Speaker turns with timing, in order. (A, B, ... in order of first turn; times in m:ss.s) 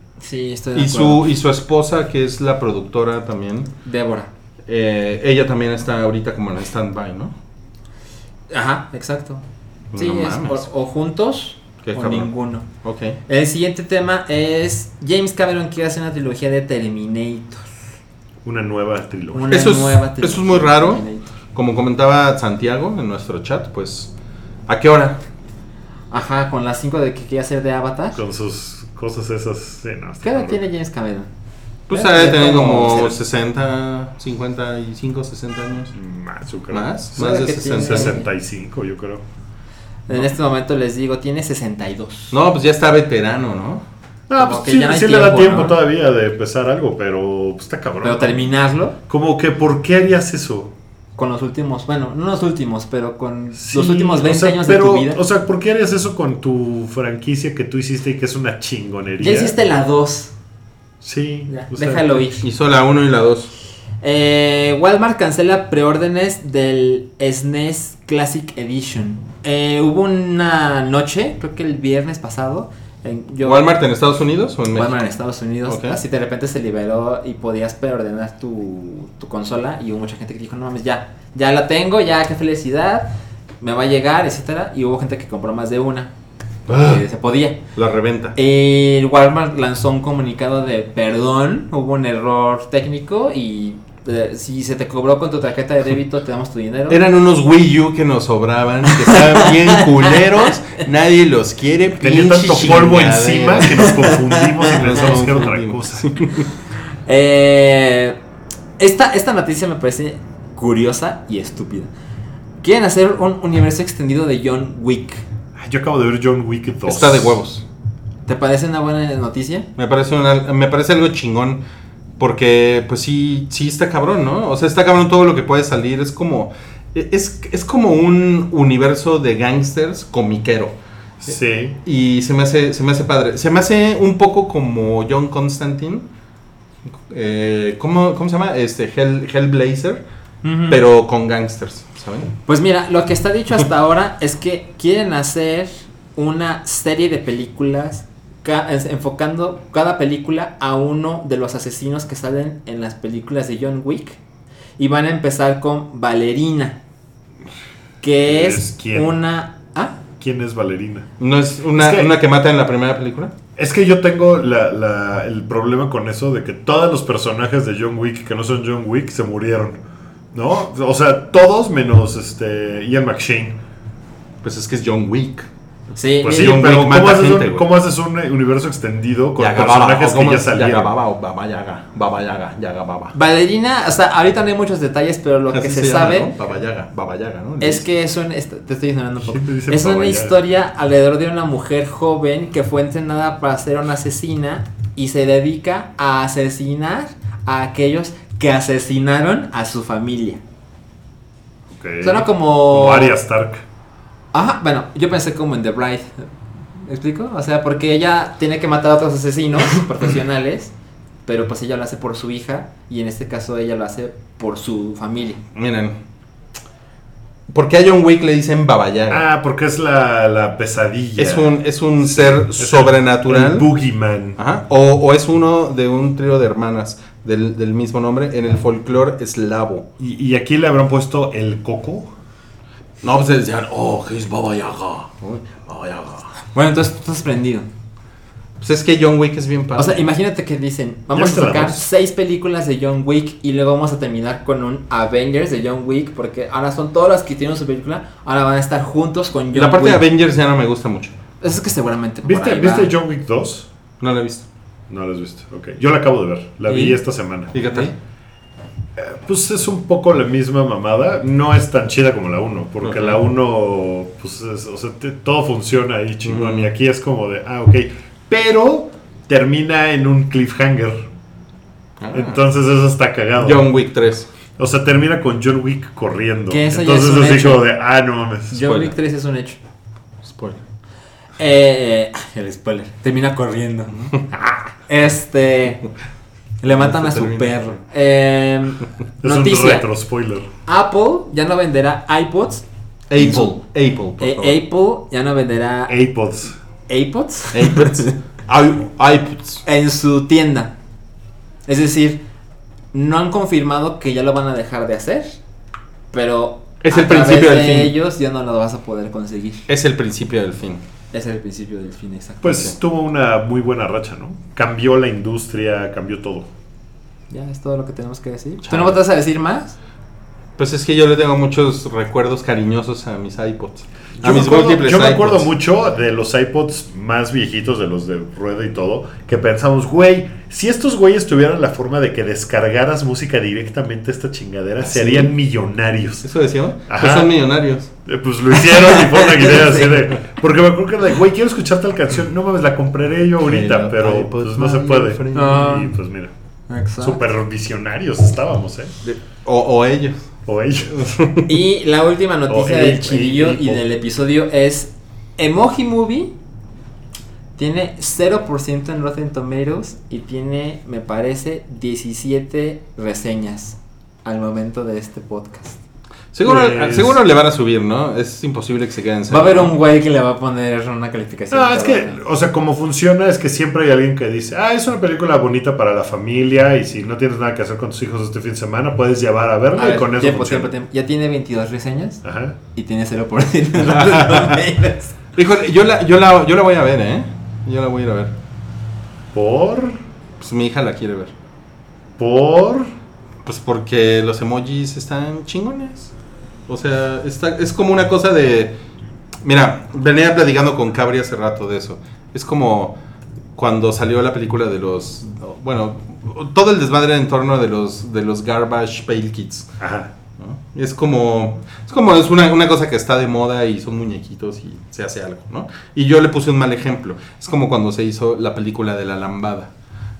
0:00.2-0:01.2 A
0:00.7-0:03.7 B
0:03.8-0:04.3 A
0:04.7-0:07.3 B
0:08.5-0:09.4 A
0:09.9-0:10.6 B
0:09.9-0:12.7 A
0:11.8-0:13.2 B
0:13.3-0:17.6 A
0:18.4-0:19.6 C
0:19.3-0:21.3 A
0:19.5-0:24.1 B
0:24.7-0:25.2 B
0:26.1-0:28.2 A
0:28.1-0:30.6 C
0:30.2-0:31.3 A
0:31.9-0:35.9 B
0:31.9-0:33.2 A
0:35.9-0:39.2 C
0:36.7-0:38.2 B
0:37.2-0:38.3 A
0:40.1-0:42.4 A
0:42.3-0:43.8 B
0:44.3-0:48.5 C
0:44.4-0:45.8 A
0:48.0-0:49.0 A
0:49.1-0:50.7 C
0:51.2-0:55.2 A
0:53.5-0:59.5 C
0:59.2-1:00.3 A
1:01.0-1:02.1 C
1:01.5-1:02.4 A
1:02.4-1:03.5 B
1:04.0-1:13.7 A
1:13.4-1:15.0 B
1:14.7-1:23.1 A
1:15.6-1:16.0 B
1:23.6-1:26.1 A
1:26.7-1:27.0 B
1:26.7-1:27.6 A
1:27.7-1:28.4 B
1:28.4-1:37.0 A
1:36.9-1:44.0 B
1:39.0-1:40.5 A
1:42.0-1:46.1 C
1:43.8-1:45.2 A
1:44.7-1:46.5 B
1:47.0-1:48.2 A
1:48.8-1:51.9 A
1:52.6-1:55.2 A
1:55.6-1:57.4 C
1:56.8-1:57.6 B
1:58.2-1:59.7 A
1:59.8-2:01.6 B
2:02.2-2:10.7 B
2:11.2-2:11.8 C
2:11.8-2:16.0 B
2:17.1-2:20.0 B
2:20.4-2:20.8 A
2:20.7-2:22.3 B
2:22.5-2:34.2 A
2:34.8-2:36.8 A
2:38.0-2:40.0 A
2:38.2-2:39.1 C
2:40.2-2:41.1 C
2:41.2-2:43.3 B
2:41.8-2:42.1 C
2:43.6-2:49.8 C
2:50.3-2:53.6 C
2:54.4-2:55.5 B
2:55.9-2:56.6 A
2:56.2-3:00.9 C
2:56.2-2:57.6 B
2:59.4-3:03.1 B
3:03.1-3:06.3 A
3:05.5-3:07.8 B
3:07.6-3:20.4 A
3:09.2-3:10.4 C
3:21.7-3:23.6 C
3:22.0-3:23.1 A
3:24.3-3:30.7 A
3:31.2-3:35.4 A
3:35.5-3:36.0 B
3:37.5-3:39.2 B
3:39.1-3:44.4 C
3:41.2-3:43.7 B
3:44.4-3:49.9 B
3:50.0-3:52.1 C
3:53.0-3:56.3 B
3:56.5-3:57.7 A
3:58.6-4:00.1 B
3:59.8-4:10.0 A
4:01.1-4:01.8 C
4:09.5-4:11.2 B
4:11.4-4:12.9 A
4:12.2-4:13.7 C
4:14.0-4:14.4 B
4:14.9-4:17.5 C
4:16.7-4:17.0 A
4:17.5-4:17.9 B
4:17.6-4:17.9 A
4:19.0-4:31.1 C
4:22.8-4:23.2 B
4:26.2-4:26.7 B
4:32.0-4:32.4 B
4:32.1-4:33.7 C
4:33.4-4:34.3 B
4:34.6-4:38.6 C
4:36.5-4:37.6 A
4:38.5-4:39.6 A
4:38.6-4:38.9 B
4:40.2-4:40.6 B
4:41.4-4:45.8 A
4:46.6-4:49.9 A
4:46.8-4:47.8 B
4:49.2-4:50.5 C
4:50.6-4:52.6 A
4:53.1-4:54.6 B
4:53.2-4:53.5 A
4:54.2-4:56.0 A
4:55.9-4:56.6 C
4:56.9-4:58.1 A
4:57.5-4:59.6 B
4:59.6-5:00.7 A
5:01.7-5:02.2 A
5:02.9-5:05.4 A
5:06.1-5:09.6 A
5:06.8-5:07.9 B
5:09.7-5:10.8 B
5:11.1-5:12.7 A
5:12.4-5:16.5 C
5:17.3-5:19.8 A
5:18.6-5:19.0 B
5:20.6-5:25.5 B
5:24.2-5:36.3 C
5:34.9-5:35.3 B
5:36.2-5:37.9 B
5:36.9-5:37.3 C
5:38.0-5:46.3 C
5:39.4-5:39.8 A
5:43.4-5:45.7 B
5:45.3-5:45.9 A
5:46.7-5:47.2 A
5:47.0-5:48.9 C
5:49.0-5:50.3 B
5:50.4-5:51.1 C
5:50.9-5:51.4 B
5:51.4-5:56.3 A
5:52.5-5:53.8 C
5:57.6-6:05.8 A
6:06.3-6:09.7 B
6:06.4-6:07.2 C
6:09.3-6:12.2 A
6:11.5-6:20.7 C
6:19.7-6:22.2 A
6:22.2-6:22.6 C
6:22.7-6:25.2 A
6:25.4-6:28.3 B
6:29.3-6:30.0 C
6:30.4-6:31.3 B
6:32.2-6:32.9 C
6:33.4-6:36.1 B
6:36.7-6:38.7 B
6:39.4-6:43.0 B
6:43.6-6:49.7 B
6:49.8-6:50.1 C
6:50.4-6:59.7 B